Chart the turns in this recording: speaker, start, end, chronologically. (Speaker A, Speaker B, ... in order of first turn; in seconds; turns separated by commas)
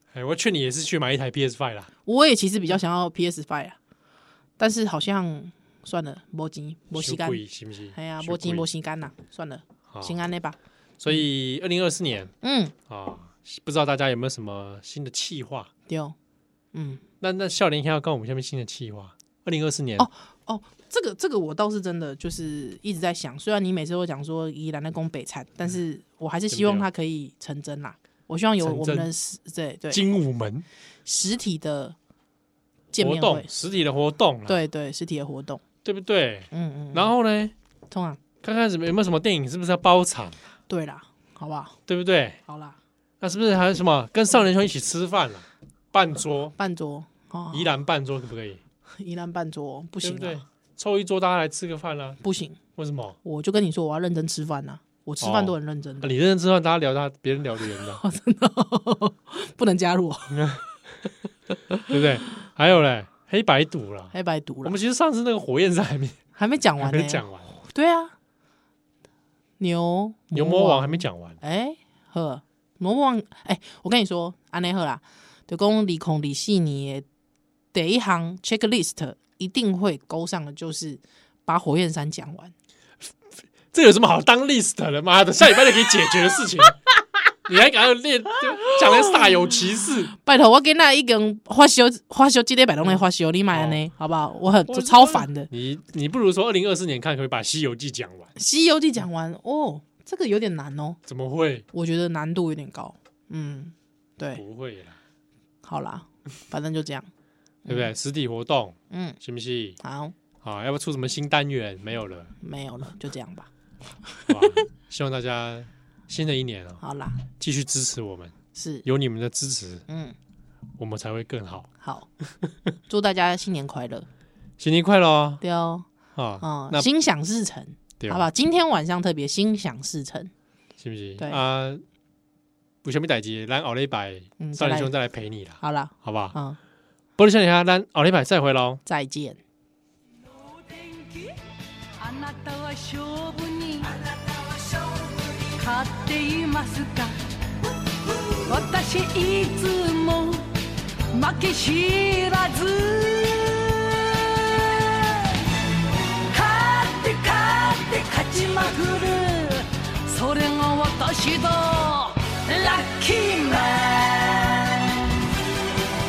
Speaker A: 0.1-1.9, Speaker B: 2.1-3.8, Speaker B: 4.6-7.4, Speaker A: 6.9-8.7, Speaker B: 8.0-10.6, Speaker A: 9.9-10.2, Speaker A: 11.0-12.3, Speaker B: 12.4-12.7, Speaker A: 12.9-15.7, Speaker B: 15.9-16.2, Speaker B: 16.7-17.0, Speaker A: 17.2-20.1, Speaker B: 20.0-30.0, Speaker A: 26.5-26.9, Speaker A: 28.6-29.1, Speaker A: 29.9-30.7, Speaker B: 31.1-32.0, Speaker B: 32.9-33.5, Speaker A: 33.0-34.6, Speaker B: 34.5-35.6, Speaker A: 35.8-37.5, Speaker B: 36.5-37.1, Speaker B: 37.9-38.2, Speaker A: 38.4-40.4, Speaker B: 40.7-41.8, Speaker A: 41.9-42.4, Speaker B: 42.5-42.8, Speaker A: 43.2-46.6, Speaker B: 46.6-47.7, Speaker A: 47.5-48.6, Speaker B: 49.0-50.4, Speaker A: 50.0-52.2, Speaker B: 52.2-52.6, Speaker A: 52.8-53.2, Speaker B: 53.2-56.1, Speaker A: 55.2-58.0, Speaker B: 58.0-60.6, Speaker A: 60.3-60.6, Speaker B: 61.5-62.0, Speaker A: 61.9-66.2, Speaker B: 64.1-64.8, Speaker B: 66.4-68.2, Speaker A: 66.8-67.5, Speaker B: 69.6-77.0, Speaker A: 70.3-71.4, Speaker B: 77.7-82.5, Speaker A: 83.7-86.8, Speaker A: 87.5-90.1, Speaker B: 88.9-89.3, Speaker B: 90.2-95.5, Speaker A: 93.5-93.8, Speaker A: 94.7-98.3, Speaker B: 98.4-101.0, Speaker A: 101.1-101.7, Speaker B: 101.7-104.4, Speaker A: 104.3-105.0, Speaker B: 105.6-107.1, Speaker B: 107.7-107.9, Speaker A: 107.7-109.8, Speaker B: 108.9-109.2, Speaker B: 109.8-110.2, Speaker A: 110.4-112.3, Speaker B: 112.4-113.5, Speaker B: 114.1-114.6, Speaker A: 114.3-119.9, Speaker B: 116.8-117.2, Speaker B: 118.5-118.8, Speaker B: 119.9-120.2, Speaker A: 120.8-121.7, Speaker B: 121.8-122.1, Speaker B: 122.9-124.1, Speaker A: 124.6-125.4, Speaker B: 125.4-125.8, Speaker A: 126.2-126.9, Speaker B: 126.4-130.3, Speaker A: 128.0-128.3, Speaker A: 130.8-131.8, Speaker A: 132.8-136.4, Speaker B: 134.4-134.9, Speaker B: 135.6-136.6, Speaker A: 137.2-138.8, Speaker B: 138.9-139.4, Speaker C: 140.3-141.4, Speaker C: 142.0-147.2, Speaker C: 148.3-150.6, Speaker C: 151.1-155.4, Speaker C: 156.2-165.1